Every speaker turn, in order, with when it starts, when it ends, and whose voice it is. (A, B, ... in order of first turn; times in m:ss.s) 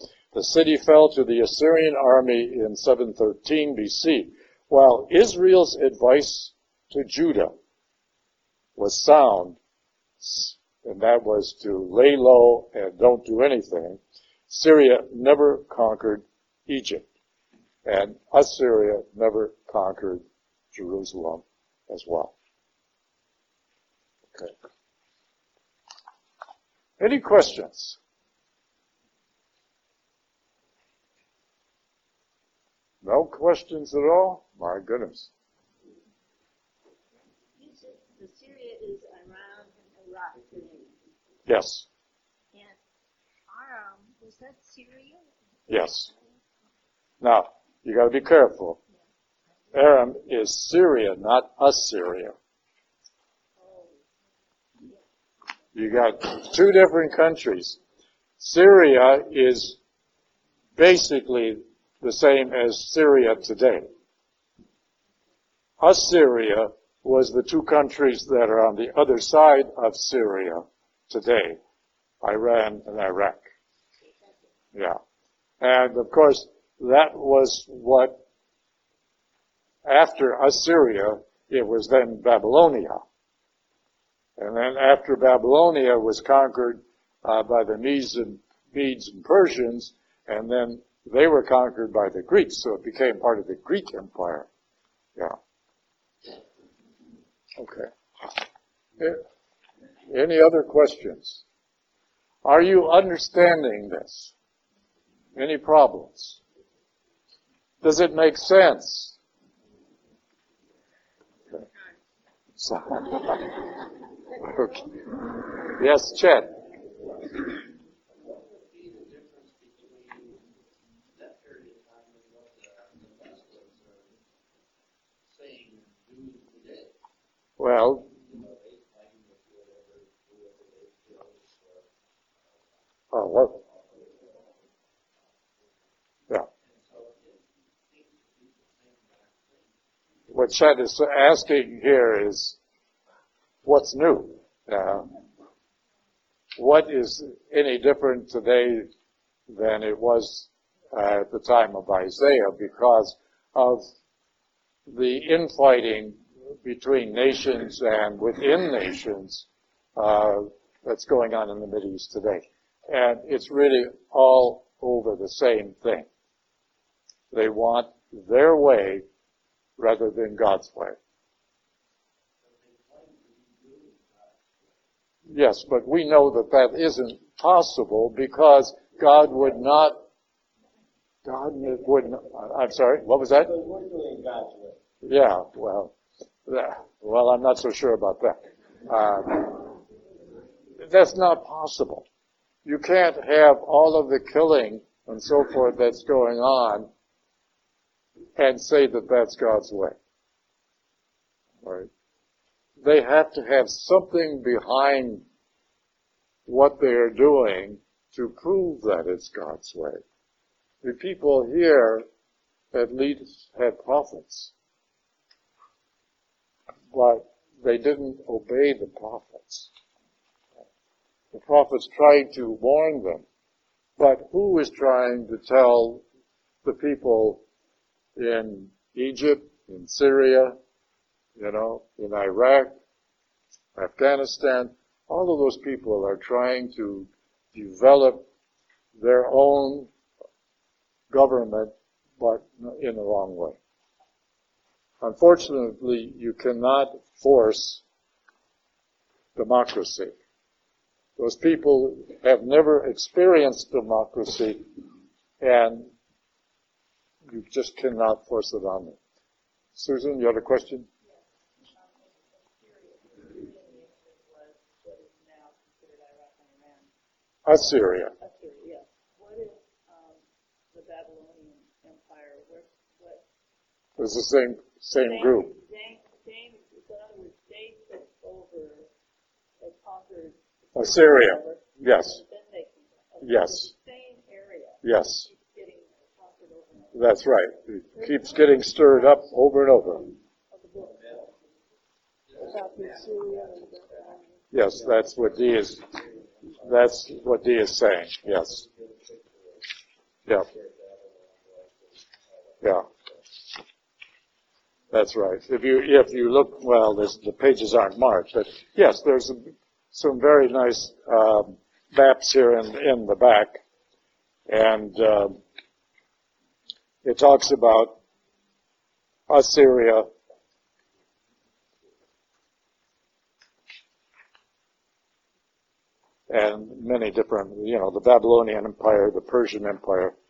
0:00.3-0:07.5 A
0:08.8-0:09.6 A
0:10.2-0:17.0 A
0:17.8-0:22.3 A
0:27.0-0:28.0 A
0:33.0-0:35.3 A
0:37.5-0:40.9 B
0:41.4-0:41.8 A
0:42.5-0:42.8 B
0:43.5-0:45.3 B
0:45.7-0:46.1 A
0:47.2-0:48.8 A
0:49.7-0:52.3 A
0:53.6-0:54.0 B
0:55.7-0:57.8 A
0:58.4-0:59.8 A
1:00.8-1:03.9 A
1:05.8-1:11.6 A
1:12.2-1:13.4 A
1:14.1-1:14.4 B
1:14.7-1:15.0 A
1:15.6-1:18.2 A
1:19.8-1:23.0 A
1:24.4-1:34.5 A
1:37.6-1:38.4 A
1:39.0-1:39.2 A
1:40.1-1:41.4 A
1:42.4-1:44.3 A
1:45.3-1:46.4 A
1:47.8-1:49.2 A
1:52.6-1:53.6 A
1:54.4-1:54.8 A
1:55.7-1:56.6 A
1:58.2-2:00.5 C
2:01.1-2:04.4 C
2:05.2-2:06.9 C
2:07.6-2:08.1 A
2:08.0-2:12.8 C
2:13.1-2:13.6 A
2:13.4-2:14.6 C
2:15.5-2:19.7 C
2:20.3-2:22.6 A
2:23.6-2:25.1 A
2:26.6-2:28.9 A
2:29.5-2:33.8 A
2:34.9-2:46.1 A
2:47.3-2:49.0 A
2:49.8-2:51.0 A
2:52.4-2:54.8 C
2:55.3-3:00.0 A
3:01.2-3:03.5 A
3:03.5-3:04.7 C
3:05.0-3:05.9 A
3:06.4-3:09.6 A
3:10.8-3:12.0 A
3:12.6-3:16.9 A
3:18.4-3:20.0 A
3:21.6-3:21.9 A
3:22.8-3:25.2 A
3:26.4-3:30.0 A
3:30.8-3:32.0 A
3:32.7-3:34.5 A
3:36.9-3:39.7 A
3:41.3-3:43.2 A
3:44.0-3:46.0 A
3:46.6-3:47.4 A
3:48.2-3:50.6 A
3:51.4-3:52.7 A
3:53.7-3:58.2 A
3:58.9-3:59.9 A
4:01.1-4:03.6 A
4:05.0-4:07.8 A
4:09.3-4:10.1 A
4:11.2-4:14.7 A
4:15.4-4:15.9 A
4:17.3-4:19.0 A
4:19.7-4:20.9 A
4:21.1-4:26.9 B
4:27.4-4:28.1 A
4:28.2-4:30.2 B
4:30.7-4:33.2 B
4:34.0-4:35.5 A
4:34.9-4:38.9 B
4:39.6-4:47.1 B
4:40.7-4:42.2 A
4:43.2-4:43.7 A
4:44.8-4:45.3 A
4:46.9-4:50.1 A
4:48.0-4:48.4 B
4:50.5-4:51.1 B
4:50.8-4:51.2 C
4:52.3-4:53.7 C
4:52.5-4:54.2 B
4:54.5-4:56.0 A
4:56.6-4:58.6 A
4:58.4-4:59.7 C
5:00.3-5:02.6 C
5:02.6-5:02.9 A
5:04.9-5:13.6 A
5:14.5-5:15.4 A
5:17.0-5:18.0 A
5:19.3-5:20.1 A
5:26.3-5:30.1 A